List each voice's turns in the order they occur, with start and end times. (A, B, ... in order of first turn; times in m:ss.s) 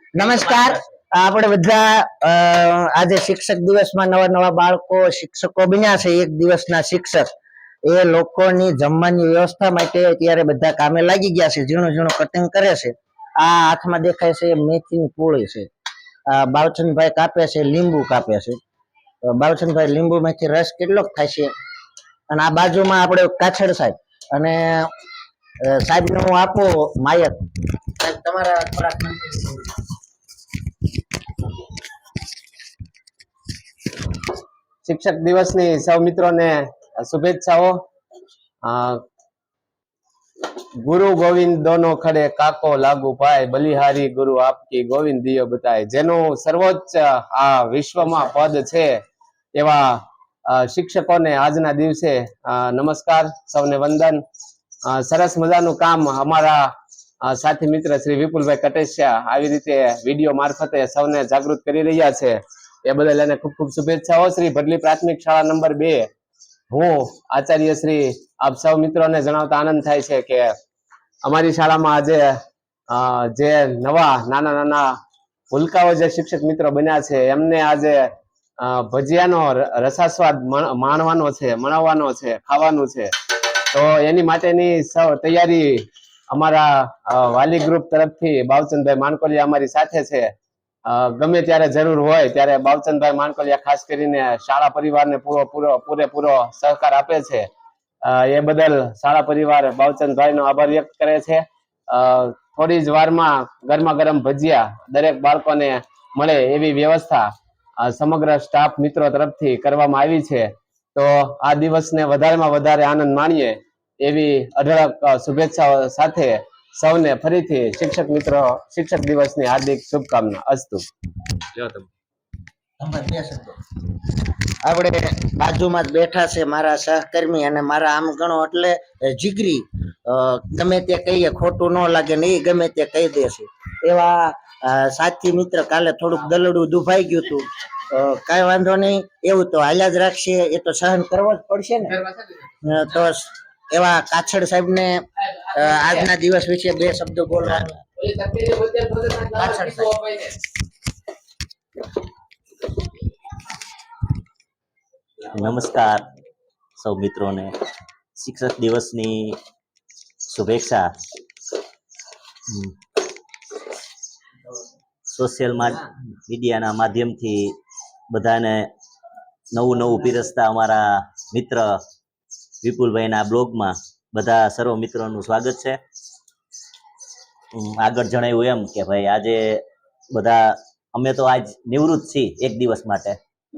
0:00.1-0:07.3 A
0:07.9-0:15.7 A
0:16.3-0:18.6 A
0:19.2-0:21.5 A
0:22.3-0:24.9 A
0:25.7-0:27.4 A
0:28.0-0:29.6 A
0:34.8-0:37.8 B
0:38.6-0:39.0 B
0:40.8-0:48.9 B
0:49.6-0:54.2 B
0:54.9-0:56.7 B
0:57.2-1:06.1 B
1:06.7-1:10.6 B
1:11.2-1:12.4 B
1:12.9-1:14.9 B
1:15.5-1:23.1 B
1:23.7-1:30.3 B
1:30.8-1:37.5 B
1:38.0-2:00.8 B
2:01.5-2:01.9 B
2:02.8-2:03.6 A
2:04.6-2:22.0 A
2:21.9-2:22.5 B
2:22.6-2:25.0 A
2:25.3-2:26.0 B
2:25.5-2:27.8 A
2:28.0-2:30.4 B
2:29.3-2:29.9 A
2:35.3-2:36.0 C
2:36.8-2:37.6 C
2:38.2-2:39.4 C
2:40.3-2:40.9 C
2:45.1-2:47.6 C
2:48.1-2:48.7 C
2:49.5-2:51.8 C
2:52.6-2:55.8 C
2:57.5-3:03.2 C